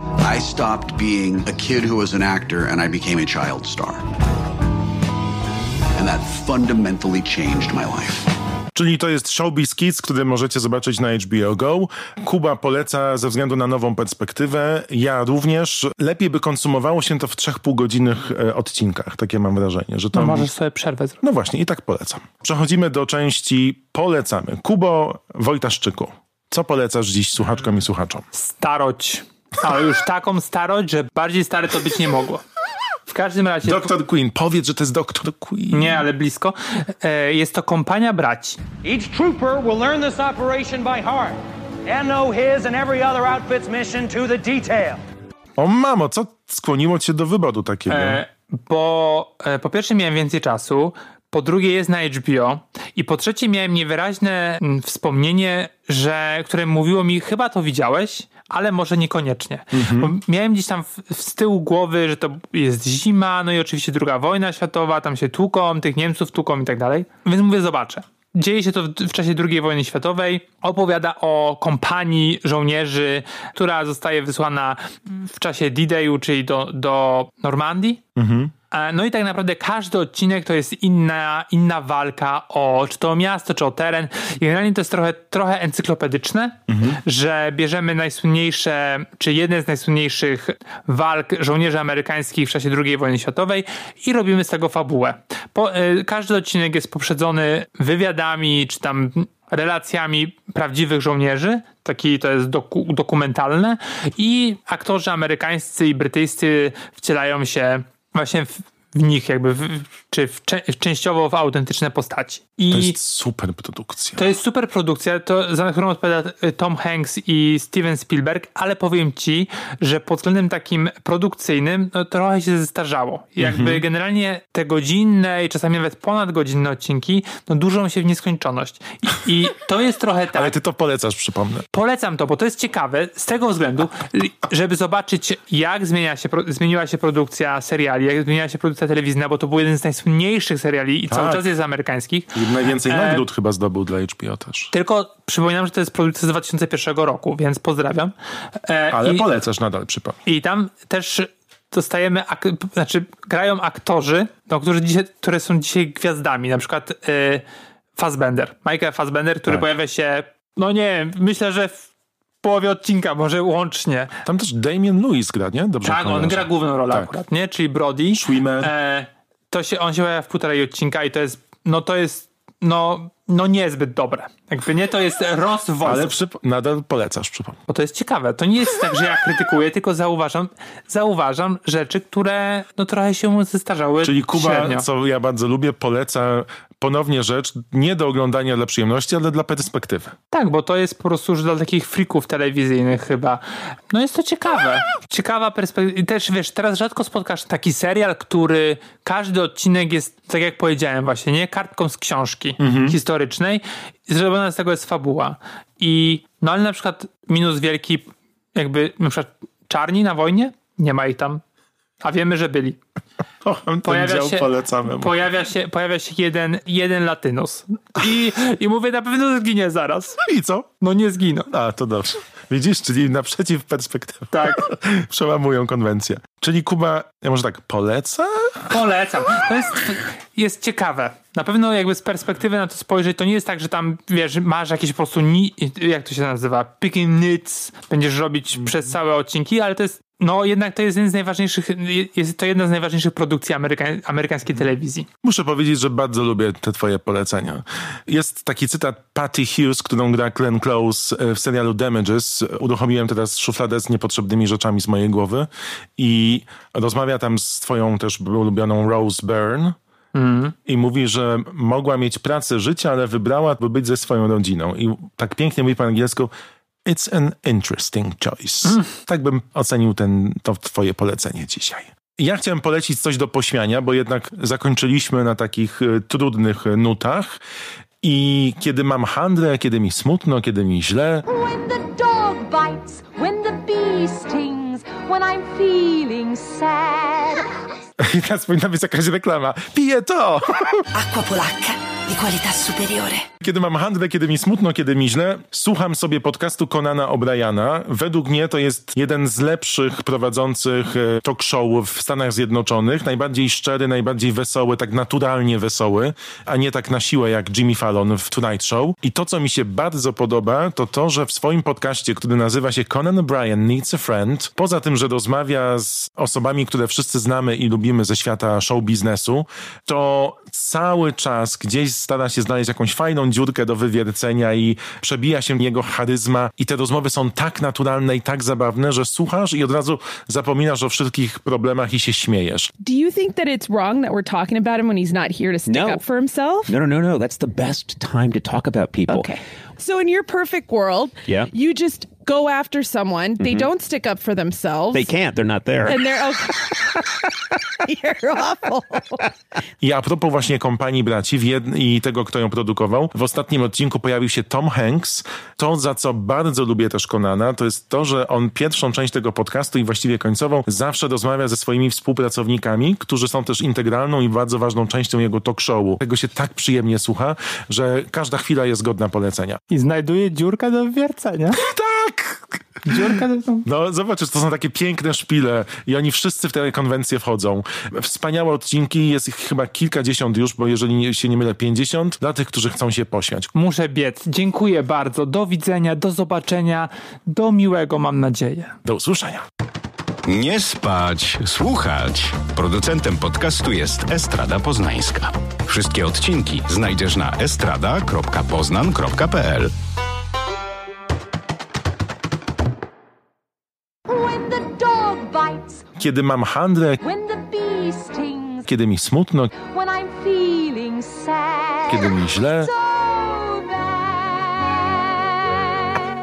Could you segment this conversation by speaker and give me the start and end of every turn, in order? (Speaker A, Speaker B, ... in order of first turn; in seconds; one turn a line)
Speaker A: 0.2-4.0
Speaker A: 6.0-8.3
Speaker B: 8.7-20.5
Speaker C: 20.1-21.2
Speaker B: 21.2-28.2
Speaker C: 28.3-32.4
Speaker C: 33.1-33.9
Speaker B: 33.6-36.1
Speaker C: 35.7-38.6
Speaker D: 38.8-45.0
Speaker B: 45.6-48.2
Speaker C: 47.9-78.0
Speaker B: 59.7-60.1
Speaker B: 78.2-78.5
Speaker C: 78.7-113.0
Speaker B: 86.7-87.0
Speaker B: 112.7-114.3
Speaker C: 114.2-130.5
Speaker B: 123.4-123.8
Speaker B: 130.3-131.7
Speaker C: 131.7-143.2
Speaker B: 141.1-141.4
Speaker B: 142.3-144.7
Speaker C: 144.7-148.1
Speaker C: 148.6-149.3
Speaker B: 148.9-150.2
Speaker C: 150.3-157.4
Speaker C: 158.0-161.9
Speaker C: 162.4-164.1
Speaker B: 164.2-167.1
Speaker C: 165.8-176.1
Speaker B: 168.1-168.7
Speaker B: 175.8-177.6
Speaker C: 177.7-184.9
Speaker B: 184.0-190.1
Speaker C: 190.3-211.4
Speaker B: 202.6-203.0
Speaker C: 212.0-212.8
Speaker B: 213.4-215.2
Speaker C: 213.8-220.2
Speaker B: 220.2-220.7
Speaker C: 220.8-221.5
Speaker B: 221.5-228.6
Speaker C: 224.3-224.6
Speaker C: 228.7-245.1
Speaker B: 245.2-259.8
Speaker C: 260.1-260.6
Speaker B: 260.6-266.3
Speaker B: 266.9-277.4
Speaker C: 268.6-268.9
Speaker B: 278.0-281.2
Speaker E: 281.3-287.5
Speaker B: 288.0-290.8
Speaker F: 290.9-293.3
Speaker B: 293.4-332.7
Speaker G: 332.8-336.7
Speaker H: 335.6-336.1
Speaker H: 336.7-339.4
Speaker G: 339.1-345.2
Speaker H: 343.4-343.7
Speaker H: 344.9-346.0
Speaker G: 345.9-347.1
Speaker G: 347.9-349.3
Speaker B: 349.8-369.6
Speaker C: 369.7-371.6
Speaker B: 371.5-383.5
Speaker C: 372.9-373.6
Speaker C: 383.6-388.8
Speaker B: 388.9-389.4
Speaker I: 390.3-399.7
Speaker E: 404.1-405.9
Speaker B: 406.0-407.0
Speaker E: 407.0-408.7
Speaker B: 408.6-409.5
Speaker E: 409.5-415.8
Speaker B: 411.9-412.7